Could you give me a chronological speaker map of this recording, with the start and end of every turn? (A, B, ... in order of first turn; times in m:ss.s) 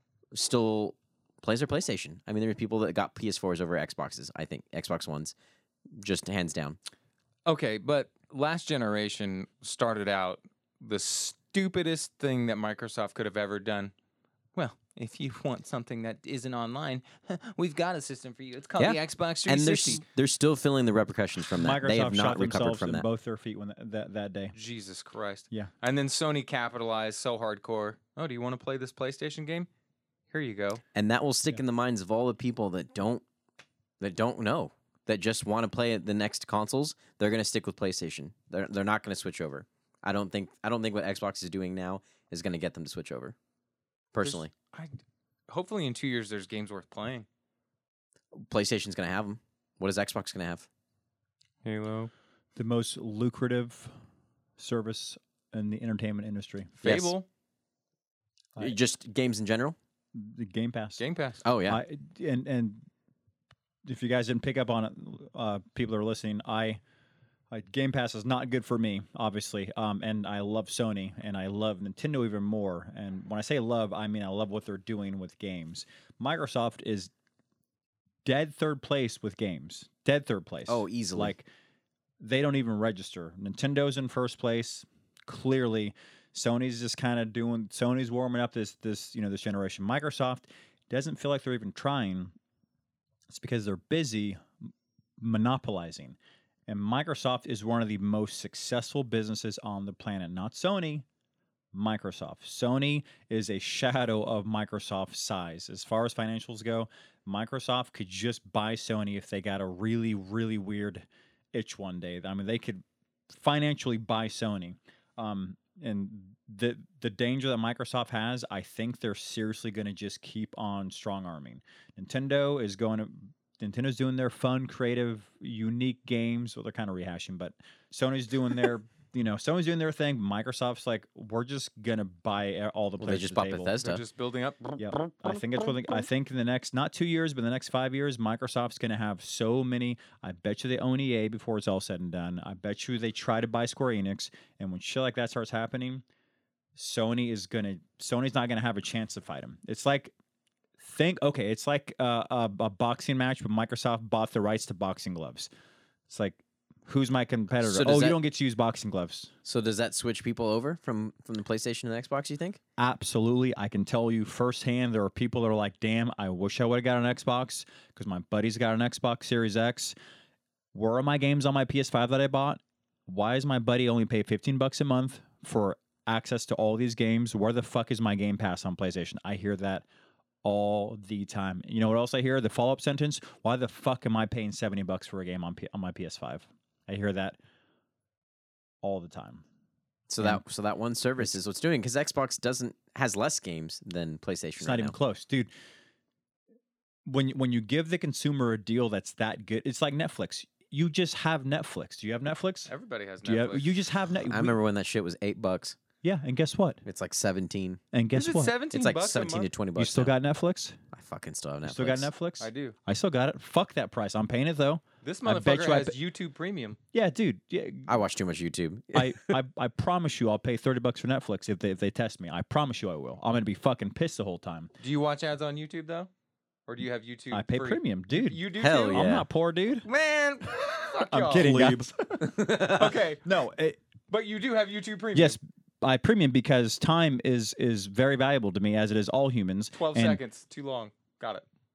0:00.3-0:05.4 A
0:05.9-0:06.8 A
0:07.5-0:13.9 B
0:14.6-0:20.0 B
0:18.8-0:23.1 A
0:21.5-0:24.6 C
0:24.6-0:29.7 B
0:30.3-0:30.8 B
0:31.0-0:33.2 A
0:34.0-0:43.4 A
0:44.1-0:44.5 A
0:44.2-0:45.0 B
0:45.5-0:47.3 B
0:48.3-0:50.7 A
0:51.6-0:52.1 B
0:52.6-0:53.9 C
0:54.6-0:56.8 C
0:56.8-0:57.3 B
0:56.8-0:57.1 A
0:58.6-0:59.8 A
1:00.1-1:01.0 C
1:01.0-1:01.4 B
1:01.4-1:01.8 A
1:01.7-1:02.8 C
1:03.8-1:06.8 C
1:07.5-1:17.1 C
1:18.2-1:21.5 C
1:20.7-1:21.4 A
1:22.2-1:32.3 C
1:33.3-1:34.5 C
1:35.2-1:41.0 C
1:41.7-2:13.7 C
2:13.0-2:14.0 A
2:13.8-2:14.8 B
2:14.8-2:26.0 C
2:26.8-2:30.1 C
2:30.8-2:35.5 C
2:36.1-2:39.3 C
2:37.6-2:38.2 A
2:39.4-2:42.6 A
2:42.8-2:49.9 C
2:50.7-2:59.9 C
3:00.4-3:07.4 C
3:08.8-3:09.4 C
3:10.1-3:15.0 A
3:14.6-3:15.5 C
3:17.1-3:22.7 C
3:22.7-3:23.8 B
3:23.2-3:24.6 C
3:24.2-3:25.8 A
3:26.0-3:26.8 C
3:26.8-3:27.8 A
3:27.9-3:28.6 C
3:28.1-3:29.5 B
3:28.7-3:30.1 A
3:29.8-3:30.8 C
3:30.9-3:32.1 A
3:31.6-3:36.0 C
3:32.4-3:32.8 B
3:35.0-3:36.8 B
3:36.9-3:37.9 C
3:37.9-3:39.4 A
3:38.9-3:44.7 C
3:44.8-3:46.1 B
3:46.7-3:49.1 B
3:47.3-3:49.9 C
3:48.6-3:49.3 A
3:49.8-3:51.8 B
3:51.0-3:52.5 C
3:51.4-3:52.9 A
3:52.4-3:53.2 B
3:53.2-3:53.8 C
3:54.1-3:55.4 B
3:55.2-4:00.2 C
3:59.8-4:01.4 B